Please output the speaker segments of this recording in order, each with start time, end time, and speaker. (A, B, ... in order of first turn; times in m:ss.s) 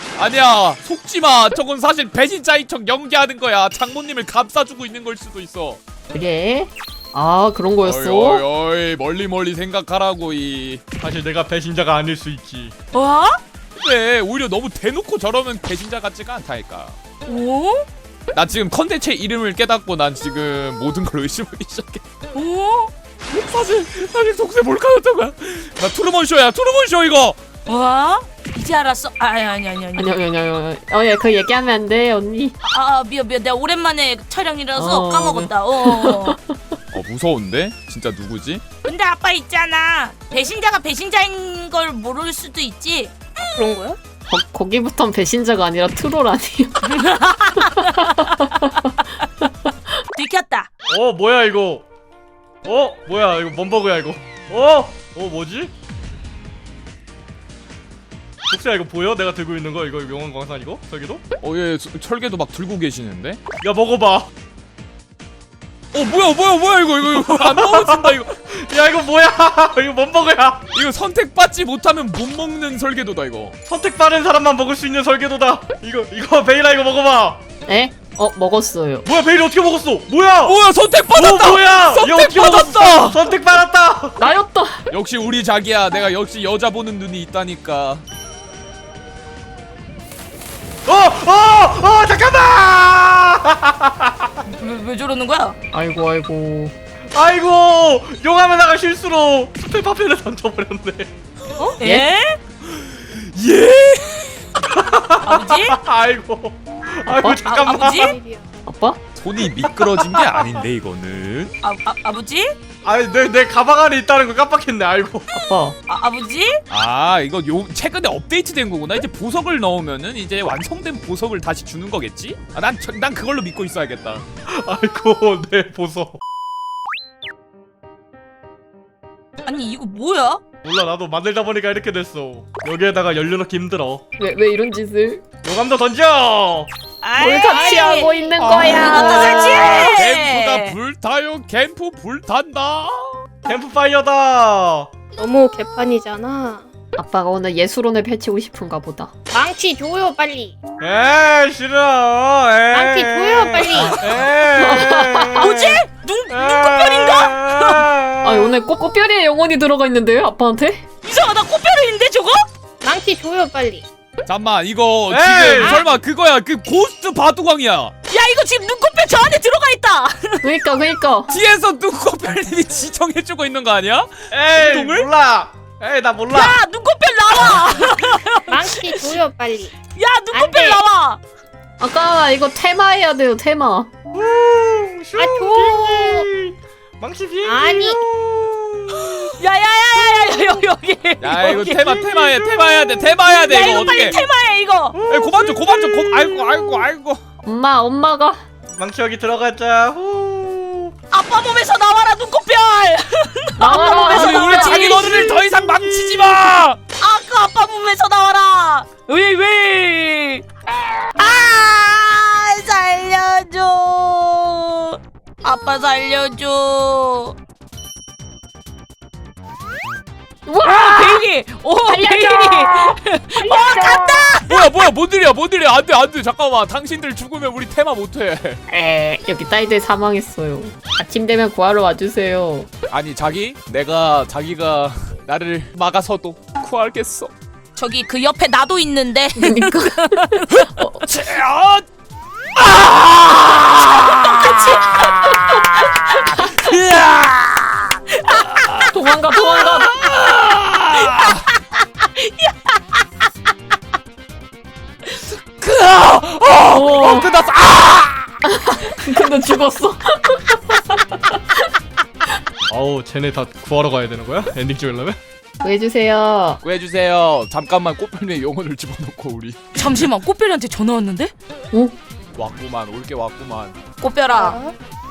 0:00.2-0:05.8 A
0:06.1-0:08.5 B
0:07.8-0:10.8 A
0:11.0-0:12.7 C
0:12.9-0:13.4 D
0:13.8-0:17.0 A
0:17.2-0:17.9 D
0:18.3-0:22.0 A
0:22.3-0:22.9 D
0:23.3-0:27.4 A
0:27.7-0:30.2 D
0:30.0-0:32.6 B
0:32.6-0:36.4 D
0:34.8-0:36.8 B
0:36.9-0:38.6 A
0:38.8-0:43.2 D
0:43.4-0:44.0 E
0:44.3-0:46.9 B
0:46.9-0:48.7 D
0:47.8-0:48.7 B
0:49.4-0:49.7 B
0:50.1-0:50.7 D
0:50.9-0:51.9 C
0:52.6-0:55.7 C
0:58.5-1:01.2 C
1:01.4-1:03.4 A
1:03.6-1:04.3 C
1:05.9-1:08.4 A
1:07.1-1:10.6 C
1:10.7-1:13.6 A
1:13.7-1:17.4 C
1:17.6-1:19.1 B
1:19.0-1:24.2 C
1:20.4-1:23.2 A
1:24.2-1:24.9 B
1:24.9-1:28.0 A
1:30.9-1:34.3 C
1:34.4-1:35.6 D
1:35.7-1:36.7 B
1:37.1-1:41.1 C
1:41.8-1:42.4 D
1:42.7-1:44.5 A
1:44.6-1:48.1 C
1:45.2-1:45.8 D
1:47.1-1:47.4 B
1:47.4-1:48.2 D
1:47.8-1:48.4 E
1:48.6-1:49.0 B
1:49.2-1:51.6 A
1:49.7-1:50.5 C
1:51.6-1:52.6 D
1:52.8-1:55.3 C
1:55.3-1:55.8 B
1:55.9-1:56.6 D
1:56.7-2:04.2 A
2:04.5-2:06.2 C
2:09.4-2:10.4 D
2:10.6-2:14.0 C
2:14.2-2:15.2 B
2:15.4-2:16.7 C
2:17.0-2:20.8 D
2:17.2-2:19.9 B
2:18.4-2:23.2 A
2:23.4-2:24.9 C
2:25.1-2:26.6 E
2:27.0-2:29.1 B
2:29.3-2:30.6 E
2:30.8-2:35.8 C
2:32.7-2:34.1 E
2:34.5-2:35.5 B
2:35.4-2:37.9 D
2:36.3-2:38.6 C
2:38.2-2:40.8 B
2:41.0-2:42.4 D
2:42.8-2:43.9 E
2:44.2-2:47.9 A
2:45.1-2:45.9 C
2:45.6-2:45.9 E
2:48.1-2:50.4 D
2:50.4-2:51.3 B
2:51.3-2:55.1 A
2:54.3-2:56.6 C
2:56.3-2:59.2 D
2:58.5-2:59.7 E
3:00.0-3:01.2 D
3:00.3-3:00.8 E
3:01.8-3:03.9 B
3:04.1-3:09.3 C
3:05.1-3:06.3 E
3:07.4-3:08.0 E
3:08.9-3:11.9 D
3:11.2-3:14.2 A
3:11.8-3:12.6 C
3:13.2-3:15.0 D
3:14.9-3:16.7 C
3:15.1-3:17.2 A
3:17.4-3:18.4 B
3:18.8-3:20.9 C
3:21.1-3:25.6 D
3:23.6-3:25.4 B
3:24.1-3:26.8 A
3:27.0-3:30.5 D
3:31.0-3:37.4 D
3:40.5-3:41.2 B
3:40.6-3:44.6 D
3:41.9-3:44.3 B
3:44.5-3:48.6 A
3:48.7-3:52.7 B
3:52.9-3:57.3 A
3:57.8-4:00.7 D
3:59.4-4:01.1 B
4:01.0-4:01.9 A
4:02.6-4:08.8 A
4:04.0-4:05.4 D
4:08.3-4:08.8 D
4:08.9-4:10.0 B
4:09.4-4:10.1 D
4:10.0-4:11.4 A
4:11.0-4:12.7 D
4:15.2-4:18.4 A
4:16.7-4:17.3 B
4:18.4-4:21.4 B
4:22.7-4:25.2 C
4:25.6-4:26.6 B
4:26.6-4:29.8 A
4:29.8-4:31.3 D
4:32.4-4:33.8 A
4:34.0-4:34.6 D
4:34.3-4:34.8 E